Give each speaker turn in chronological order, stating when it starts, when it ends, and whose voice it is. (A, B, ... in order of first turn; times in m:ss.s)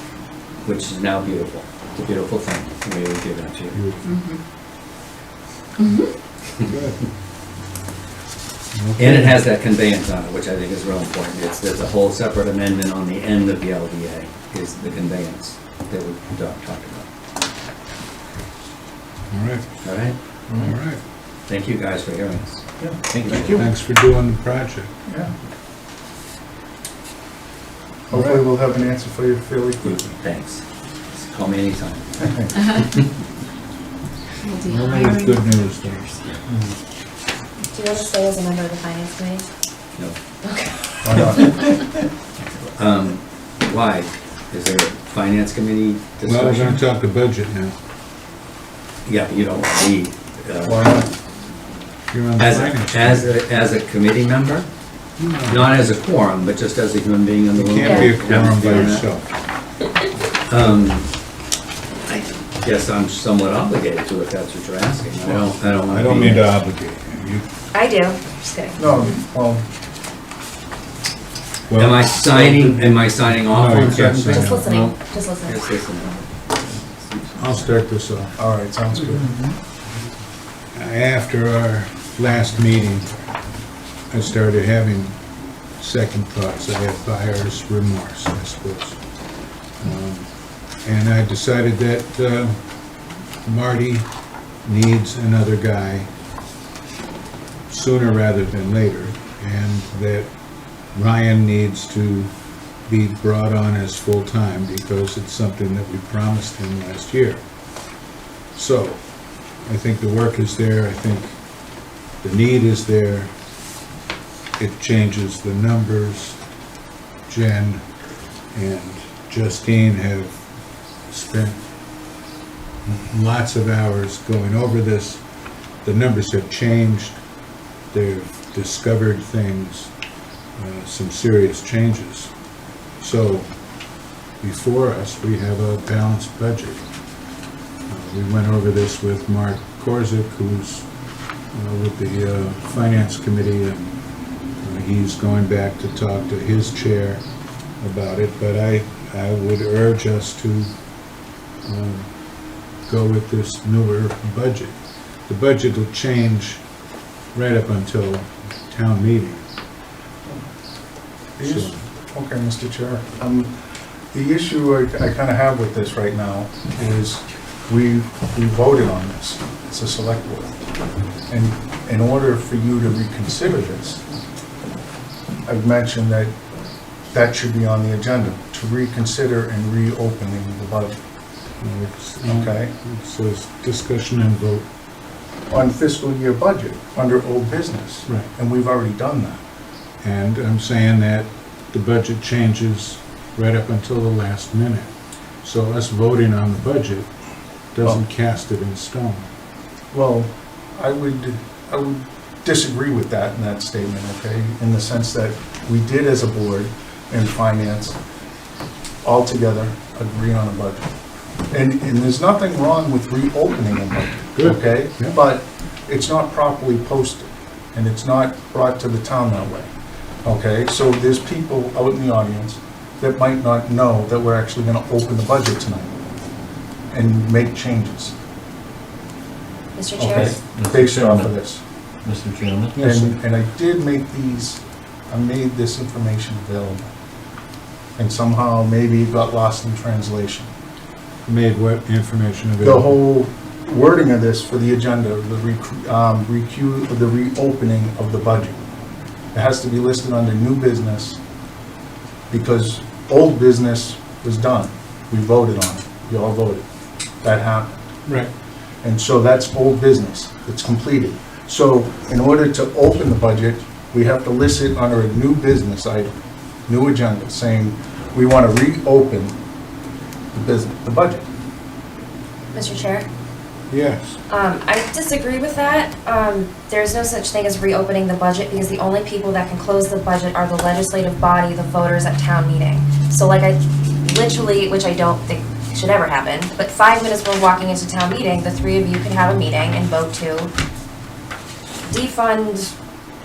0:00.6-0:03.8 A
0:03.7-0:04.2 B
0:04.0-0:04.4 C
0:06.6-0:07.0 B
0:08.7-0:09.4 B
0:09.0-0:17.1 A
0:19.3-0:19.7 B
0:19.8-0:20.2 A
0:20.6-0:21.0 B
0:21.5-0:23.5 A
0:22.8-0:23.7 D
0:23.1-0:23.5 E
0:23.4-0:24.9 B
0:25.1-0:25.3 D
0:28.1-0:30.1 D
0:28.1-0:28.4 B
0:29.8-0:30.6 A
0:31.1-0:32.9 A
0:32.2-0:32.8 D
0:34.4-0:36.1 C
0:34.7-0:36.1 B
0:36.5-0:36.7 D
0:37.7-0:39.4 F
0:40.4-0:40.8 F
0:41.0-0:41.7 D
0:42.8-0:46.8 A
0:46.2-0:47.7 B
0:49.0-0:51.1 A
0:50.6-0:51.1 D
0:52.1-0:53.4 B
0:52.4-0:54.7 A
0:55.2-0:55.8 B
0:55.5-0:59.0 A
0:57.5-0:59.3 B
0:57.8-0:58.1 F
1:00.4-1:01.1 A
1:02.1-1:06.5 A
1:05.2-1:07.5 B
1:07.7-1:08.8 F
1:08.8-1:09.6 D
1:11.7-1:14.8 B
1:11.8-1:17.7 A
1:14.2-1:15.7 F
1:17.4-1:18.4 B
1:18.4-1:19.4 D
1:20.7-1:23.2 B
1:24.1-1:25.2 B
1:25.8-1:29.0 B
1:29.8-1:32.6 B
1:33.4-1:34.1 B
1:34.6-1:36.1 B
1:37.7-1:40.3 B
1:40.9-1:42.3 B
1:42.8-1:47.4 B
1:48.5-1:49.0 B
1:49.6-1:51.4 B
1:52.2-1:53.3 B
1:54.6-1:56.4 B
1:57.3-1:57.8 B
1:58.5-2:00.4 B
2:01.1-2:01.6 B
2:02.9-2:05.2 B
2:05.8-2:07.2 B
2:07.9-2:09.9 B
2:10.6-2:12.3 B
2:13.0-2:13.5 B
2:14.4-2:16.8 B
2:17.9-2:20.9 B
2:21.5-2:23.9 B
2:24.6-2:27.2 B
2:27.8-2:30.7 B
2:31.6-2:32.1 B
2:32.8-2:34.7 B
2:35.2-2:36.6 B
2:37.3-2:39.4 B
2:41.4-2:43.5 D
2:41.4-2:41.8 B
2:44.1-2:50.6 D
2:51.3-2:54.0 D
2:55.5-2:56.3 D
2:57.1-3:01.0 D
3:01.6-3:04.6 B
3:02.2-3:02.7 D
3:05.5-3:09.4 D
3:10.0-3:14.9 B
3:15.4-3:17.1 B
3:17.7-3:19.3 B
3:19.9-3:28.0 D
3:29.0-3:30.8 D
3:31.5-3:39.7 D
3:34.3-3:35.2 B
3:40.2-3:45.9 D
3:46.9-3:48.1 D
3:49.7-3:50.3 F
3:50.0-3:51.6 D
3:50.1-3:51.3 E
3:52.0-3:52.8 E
3:52.7-3:53.2 B
3:52.8-3:56.9 D
3:58.0-4:00.5 D
4:01.2-4:02.9 B
4:02.6-4:08.6 D
4:09.3-4:11.2 D
4:12.3-4:16.6 D
4:17.2-4:17.8 D
4:18.8-4:26.1 D
4:26.6-4:29.3 D
4:30.3-4:31.2 D
4:32.5-4:33.0 F
4:33.7-4:34.2 B
4:34.3-4:50.5 F
4:51.9-4:52.7 F